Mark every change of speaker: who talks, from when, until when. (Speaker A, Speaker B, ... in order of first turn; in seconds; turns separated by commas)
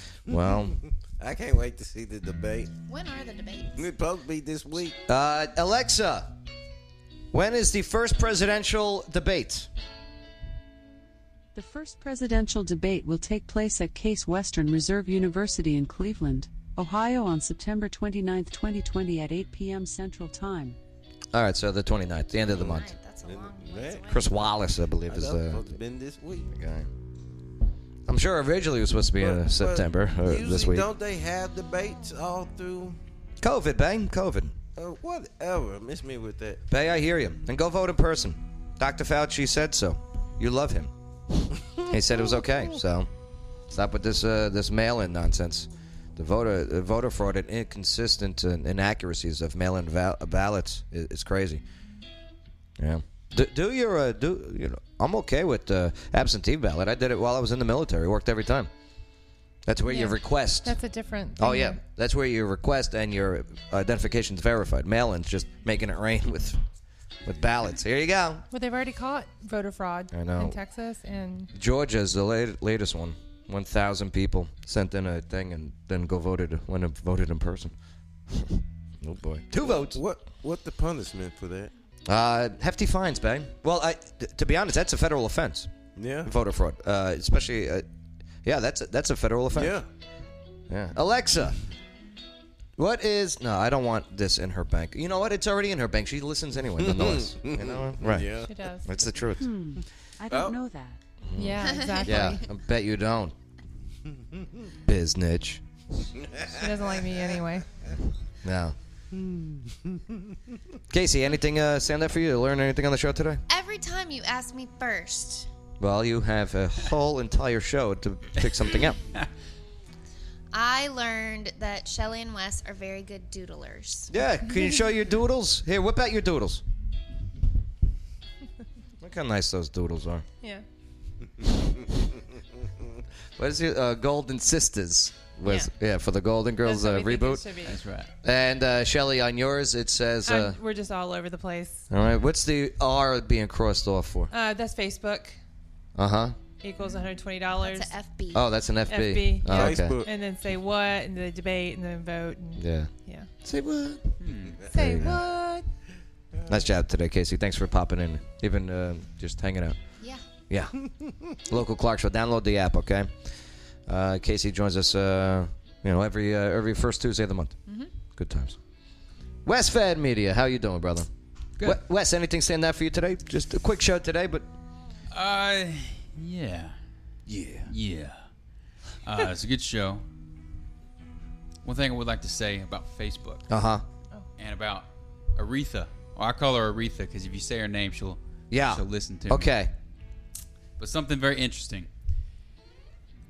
Speaker A: 0.3-0.8, Speaker B: 0.3-2.7, Speaker C: 2.9-3.9, Speaker B: 3.7-5.0, Speaker A: 5.1-6.3, Speaker A: 7.3-9.7, Speaker D: 11.6-20.8, Speaker A: 21.3-22.9, Speaker C: 22.4-24.5, Speaker B: 22.5-24.2, Speaker A: 24.1-25.8, Speaker B: 25.1-26.5, Speaker A: 26.5-26.9, Speaker A: 28.1-30.9, Speaker B: 29.2-33.0, Speaker A: 33.4-34.5, Speaker B: 34.8-36.6, Speaker A: 36.7-40.9, Speaker A: 41.9-43.1, Speaker A: 43.7-51.6, Speaker A: 52.8-58.7, Speaker A: 59.7-60.8, Speaker E: 59.9-61.8, Speaker A: 61.4-66.6, Speaker A: 67.2-68.5, Speaker E: 68.5-71.5, Speaker A: 70.1-70.6, Speaker A: 71.5-77.8, Speaker A: 78.3-80.0, Speaker B: 79.6-81.7, Speaker A: 82.1-85.7, Speaker B: 86.0-86.3, Speaker A: 86.2-87.8, Speaker A: 88.4-89.8, Speaker B: 89.5-89.9, Speaker A: 90.7-91.6, Speaker A: 92.8-99.5, Speaker B: 96.8-98.5, Speaker E: 98.4-98.9, Speaker D: 99.4-101.0, Speaker B: 99.8-100.6, Speaker A: 101.3-103.3, Speaker E: 101.3-102.5, Speaker C: 101.6-102.1, Speaker B: 104.1-104.5, Speaker A: 104.8-105.6, Speaker B: 106.2-106.7, Speaker E: 106.5-107.7, Speaker A: 108.4-108.8, Speaker B: 109.1-110.4, Speaker A: 110.9-113.4, Speaker C: 113.5-115.5, Speaker A: 115.8-119.0, Speaker C: 120.5-124.1, Speaker A: 124.1-126.6, Speaker A: 129.0-130.2, Speaker A: 133.4-137.5, Speaker E: 135.4-135.7, Speaker E: 136.6-137.8, Speaker F: 137.7-138.1, Speaker A: 138.2-140.6, Speaker E: 140.2-141.8, Speaker A: 141.9-144.3, Speaker E: 144.3-145.4, Speaker A: 146.0-146.4, Speaker E: 146.6-147.9, Speaker C: 147.6-148.5, Speaker A: 148.3-150.0, Speaker E: 148.9-153.3, Speaker B: 149.4-150.1, Speaker A: 152.6-152.9, Speaker A: 153.4-154.2, Speaker F: 154.2-154.6, Speaker B: 154.5-154.7, Speaker E: 154.7-155.7, Speaker A: 154.7-155.2, Speaker B: 156.3-156.7, Speaker A: 156.5-159.8, Speaker A: 160.5-160.8, Speaker A: 161.4-163.1, Speaker A: 163.9-167.6, Speaker A: 168.2-168.6, Speaker A: 169.5-171.1, Speaker A: 171.6-174.5, Speaker F: 175.1-176.8, Speaker A: 177.3-177.7, Speaker F: 177.7-178.2, Speaker F: 179.0-180.0, Speaker F: 181.6-183.5, Speaker A: 183.5-183.8, Speaker F: 184.4-189.6, Speaker A: 188.5-189.7, Speaker F: 190.8-191.9